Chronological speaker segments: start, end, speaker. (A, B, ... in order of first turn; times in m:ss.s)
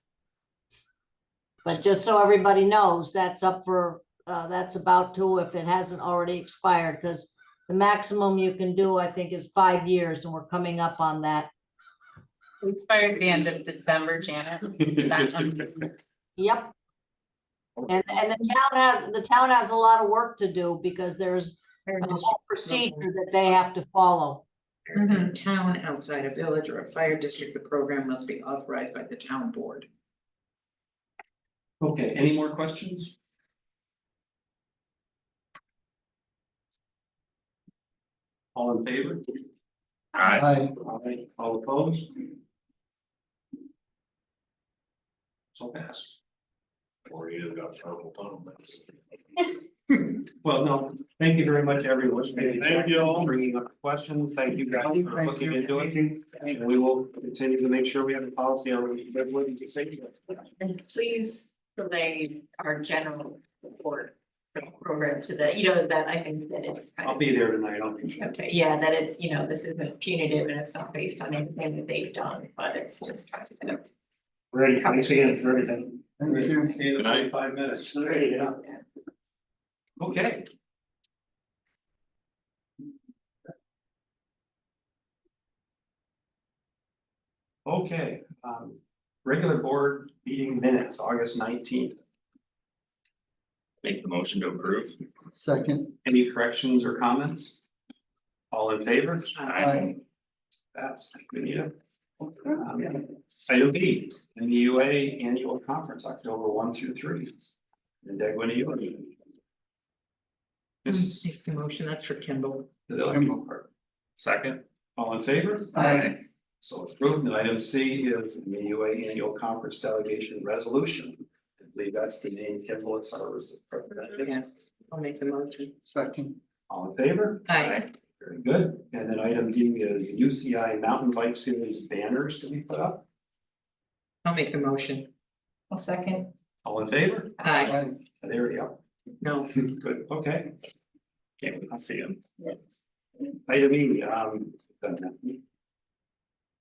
0:01.6-0:11.5 A
0:12.6-0:15.9 B
0:16.4-0:16.7 A
0:17.9-0:24.4 A
0:22.6-0:23.0 C
0:24.9-0:29.9 C
0:31.8-0:33.2 D
0:38.5-0:39.4 D
0:40.2-0:40.4 E
0:40.3-0:40.7 F
0:40.8-0:42.3 D
0:45.5-0:46.2 D
0:47.0-0:48.8 E
0:50.4-1:00.4 D
0:54.8-0:56.1 F
1:00.6-1:07.2 G
1:07.0-1:08.1 D
1:08.1-1:13.8 G
1:14.5-1:18.6 D
1:14.8-1:15.8 G
1:16.2-1:16.7 F
1:20.0-1:20.4 D
1:27.6-1:32.0 D
1:33.8-1:35.0 E
1:35.3-1:35.9 F
1:36.0-1:37.6 D
1:38.5-1:39.6 D
1:39.4-1:39.8 E
1:39.5-1:39.9 F
1:40.7-1:41.7 D
1:42.5-1:47.5 D
1:48.0-1:49.1 D
1:50.8-1:51.2 D
1:50.9-1:52.7 C
1:52.9-1:53.7 D
1:54.2-1:54.6 E
1:55.0-2:04.2 D
1:55.8-1:56.0 F
2:04.2-2:05.7 C
2:05.8-2:06.4 F
2:06.7-2:13.0 D
2:07.5-2:07.8 C
2:14.2-2:15.1 C
2:15.7-2:16.3 G
2:16.6-2:18.8 D
2:17.4-2:17.7 C
2:19.2-2:19.5 C
2:19.6-2:20.5 D
2:21.4-2:22.2 D
2:23.5-2:25.4 D